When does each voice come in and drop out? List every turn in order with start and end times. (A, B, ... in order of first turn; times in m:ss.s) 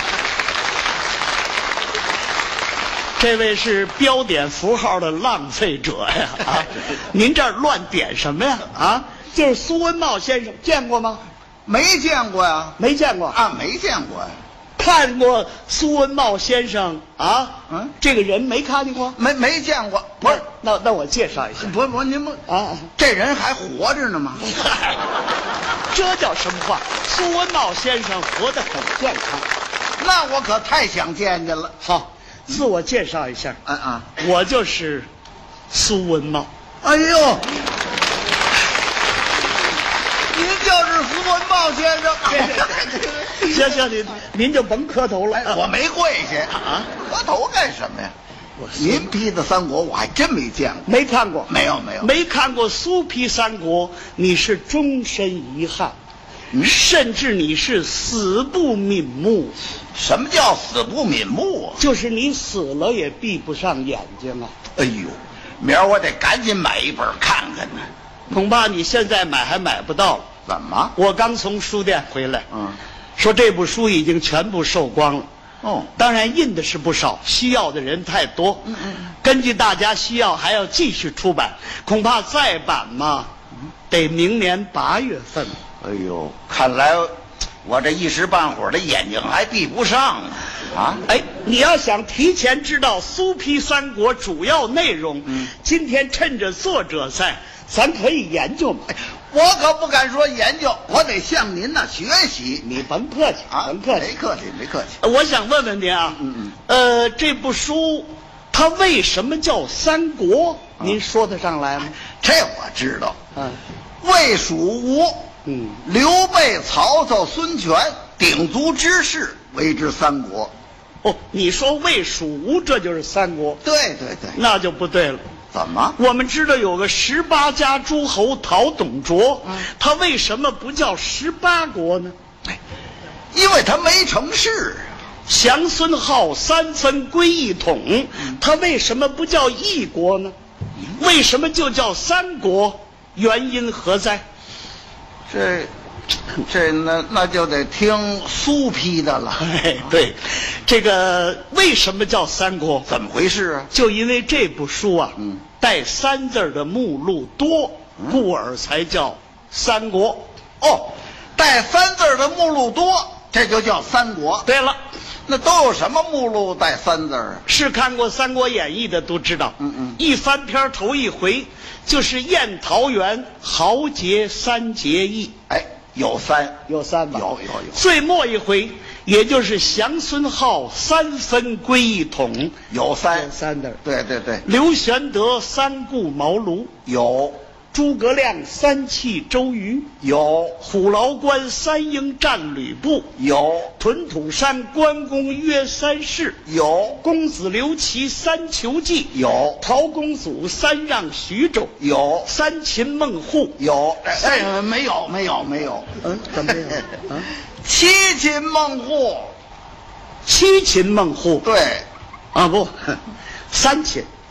0:03.2-0:11.2 A
0:11.7-0:12.8 B
0:12.8-0:13.4 A
0:13.3-0:14.4 B
0:14.8-0:19.2 A
0:19.2-0:20.4 B
0:20.2-0:21.7 A
0:21.6-0:22.4 B
0:22.5-0:22.9 A
0:23.0-0:24.5 B
0:24.4-0:25.0 A
0:25.9-0:29.5 A
0:30.0-0:31.8 B
0:31.8-0:33.6 A
0:33.6-0:34.1 B
0:34.2-0:35.1 A
0:35.7-0:36.5 A
0:36.8-0:37.7 B
0:40.3-0:43.8 B
0:42.3-0:45.6 A
0:45.3-0:48.1 B
0:46.6-0:46.9 A
0:48.6-0:49.1 A
0:48.8-0:50.9 B
0:50.9-0:56.0 A
0:51.5-0:52.1 B
0:56.6-0:59.6 A
0:59.9-1:01.8 B
1:01.8-1:04.5 A
1:04.8-1:07.9 B
1:08.3-1:10.3 A
1:10.5-1:11.0 B
1:11.0-1:12.5 A
1:12.5-1:12.8 B
1:13.2-1:15.3 A
1:15.6-1:15.9 B
1:16.0-1:23.3 A
1:18.7-1:19.0 B
1:23.9-1:25.6 A
1:25.8-1:27.1 B
1:27.6-1:31.0 B
1:31.1-1:38.9 A
1:38.9-1:42.7 B
1:42.6-1:44.1 A
1:43.5-1:45.0 B
1:45.0-1:52.0 A
1:46.2-1:46.5 B
1:52.1-1:53.2 B
1:54.0-1:55.3 B
1:55.5-1:55.8 A
1:55.8-2:00.5 B
2:01.0-2:03.6 A
2:03.6-2:04.4 B
2:04.3-2:05.2 A
2:05.5-2:06.0 B
2:06.0-2:12.2 A
2:13.3-2:14.9 B
2:15.3-2:20.4 A
2:20.9-2:24.2 A
2:25.3-2:25.7 B
2:26.4-2:29.4 B
2:29.4-2:32.9 A
2:32.9-2:33.7 B
2:33.7-2:40.3 A
2:40.6-2:44.5 B
2:44.5-2:44.8 A
2:45.3-2:47.4 B
2:47.5-2:55.4 A
2:49.6-2:50.0 B
2:55.5-2:57.8 B
2:56.7-3:02.6 A
3:02.7-3:03.3 B
3:03.1-3:03.8 A
3:03.8-3:04.4 B
3:04.4-3:06.7 A
3:06.9-3:07.4 B
3:07.7-3:09.9 A
3:10.0-3:10.6 B
3:10.6-3:13.1 A
3:13.2-3:13.7 B
3:13.8-3:16.4 A
3:16.5-3:17.0 B
3:17.0-3:23.6 A
3:19.1-3:19.6 B
3:21.8-3:22.3 B
3:23.6-3:26.8 B
3:26.0-3:27.3 A
3:27.6-3:29.3 B
3:30.3-3:31.5 A
3:31.4-3:31.9 B
3:32.3-3:34.1 A